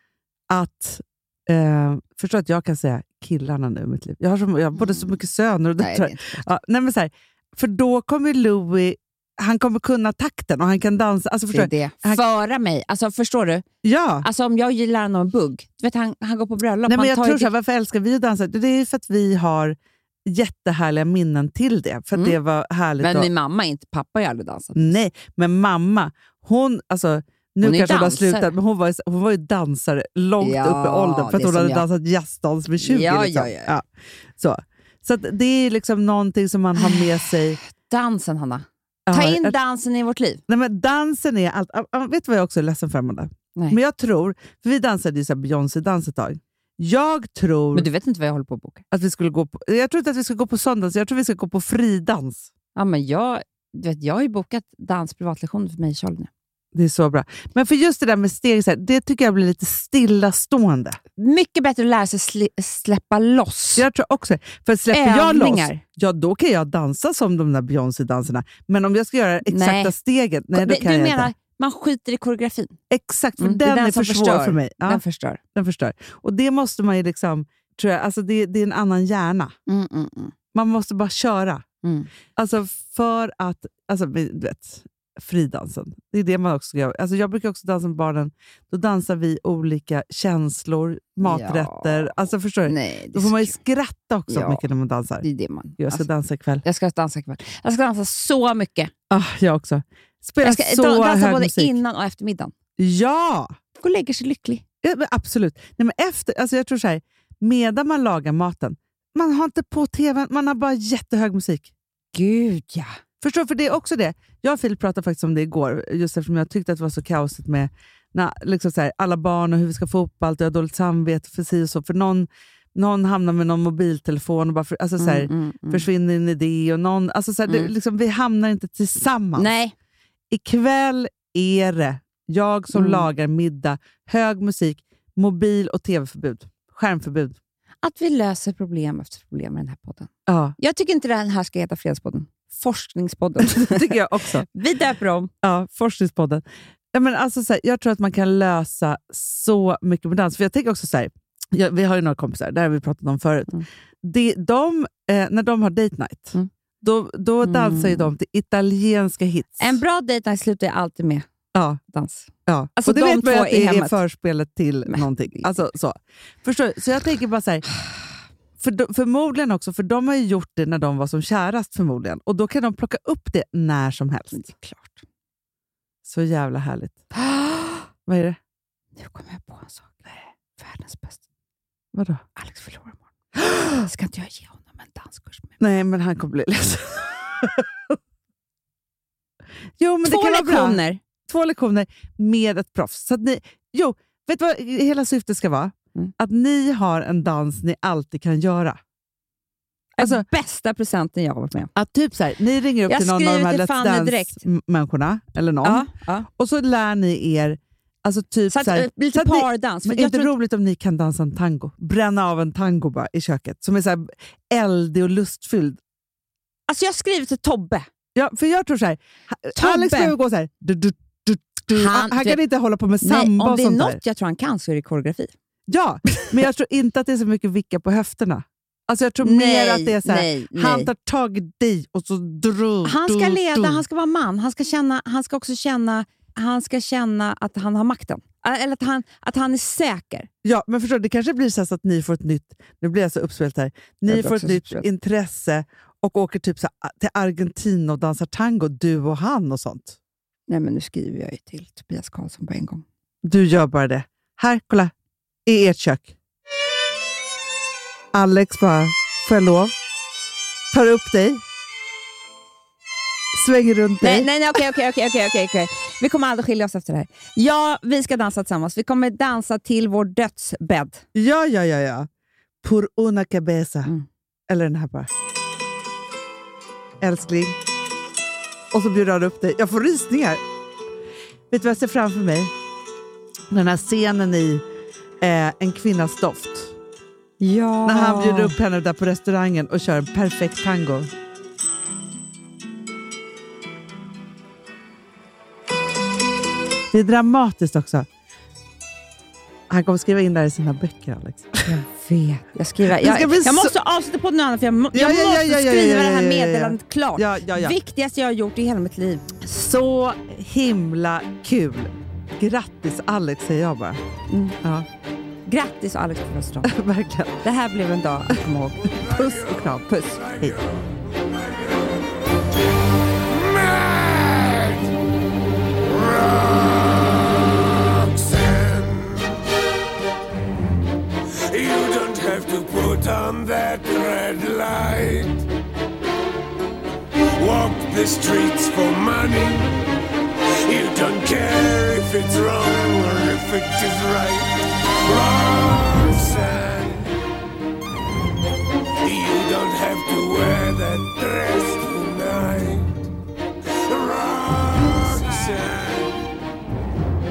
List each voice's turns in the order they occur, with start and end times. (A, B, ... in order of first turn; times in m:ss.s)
0:00.5-0:12.2 A
0:04.8-0:05.2 B
0:05.8-0:06.4 B
0:11.5-0:13.7 B
0:13.8-0:14.3 A
0:14.2-0:17.5 B
0:16.9-0:23.3 A
0:23.0-0:25.0 B
0:24.8-0:33.9 A
0:27.6-0:28.5 B
0:30.4-0:31.8 B
0:32.8-0:33.8 B
0:34.4-0:37.6 A
0:36.8-0:40.4 B
0:39.1-0:39.6 A
0:40.5-0:47.9 A
0:47.7-0:48.8 B
0:48.9-0:52.5 A
0:52.8-0:56.3 B
0:56.7-1:01.0 A
1:01.2-1:03.9 B
1:03.8-1:11.3 A
1:04.9-1:05.8 B
1:09.4-1:09.9 B
1:10.5-1:12.8 B
1:12.9-1:15.0 A
1:13.4-1:15.4 B
1:15.6-1:19.6 A
1:19.7-1:20.3 B
1:20.5-1:21.6 A
1:21.8-1:22.1 B
1:22.3-1:35.2 A
1:31.2-1:33.6 B
1:34.3-1:34.6 B
1:35.2-1:36.0 B
1:35.8-1:36.6 A
1:36.6-1:38.9 B
1:39.1-1:41.8 A
1:40.4-1:42.5 B
1:42.8-1:43.5 A
1:43.8-1:44.6 B
1:44.8-1:51.7 A
1:52.1-1:53.0 B
1:53.2-2:09.5 A
2:05.0-2:05.9 B
2:09.3-2:09.7 B
2:10.3-2:17.4 A
2:12.7-2:13.0 B
2:17.8-2:24.0 B
2:20.3-2:20.6 A
2:23.4-2:24.5 A
2:24.5-2:25.3 B
2:25.4-2:39.8 A
2:37.4-2:38.1 B
2:39.6-2:41.3 B
2:41.5-2:41.8 A
2:41.9-2:44.0 B
2:42.5-2:47.6 A
2:44.9-2:45.6 B
2:48.6-2:54.5 A
2:54.3-2:55.0 B
2:56.0-2:57.0 A
2:57.1-2:57.9 B
2:58.0-2:58.4 A
2:59.0-3:01.2 B
3:01.9-3:02.2 A
3:02.4-3:03.0 B
3:03.7-3:05.5 B
3:05.6-3:08.0 A
3:09.8-3:18.8 A
3:10.0-3:11.0 B
3:20.0-3:21.7 B
3:20.0-3:20.3 A
3:21.7-3:35.8 A
3:22.9-3:24.4 B
3:25.6-3:26.3 B
3:28.5-3:30.3 B
3:36.7-3:37.9 B
3:38.1-3:44.0 A
3:39.6-3:40.1 B
3:41.7-3:42.4 B
3:43.0-3:45.3 B
3:45.7-3:53.8 A
3:49.2-3:50.9 B
3:52.8-4:00.3 B
4:00.4-4:10.0 A
4:04.1-4:04.9 B
4:10.5-4:12.8 B
4:13.2-4:14.9 A
4:15.4-4:16.1 A
4:18.1-4:19.7 A
4:20.7-4:21.4 A
4:23.3-4:24.3 A
4:24.0-4:31.0 B
4:31.1-4:32.1 A
4:32.6-4:33.9 A
4:34.5-4:35.1 A
4:37.0-4:37.6 A
4:38.7-4:40.4 A
4:41.5-4:42.5 A
4:43.5-4:44.6 A
4:45.2-4:46.7 A
4:47.4-4:48.6 B
4:47.8-4:51.1 A
4:56.9-4:58.1 A
4:59.7-5:01.8 A
5:01.7-5:09.3 B
5:02.8-5:03.7 A
5:04.9-5:07.7 A
5:09.4-5:14.0 A
5:14.3-5:14.6 B
5:15.4-5:16.7 B
5:16.7-5:17.4 A
5:17.4-5:19.0 B
5:18.9-5:22.4 C
5:19.0-5:20.6 A
5:19.8-5:20.3 B
5:23.2-5:24.9 C
5:25.8-5:29.4 C
5:31.5-5:35.4 C
5:37.4-5:39.7 C
5:40.6-5:47.1 C
5:49.0-5:53.0 C
5:53.8-5:56.3 C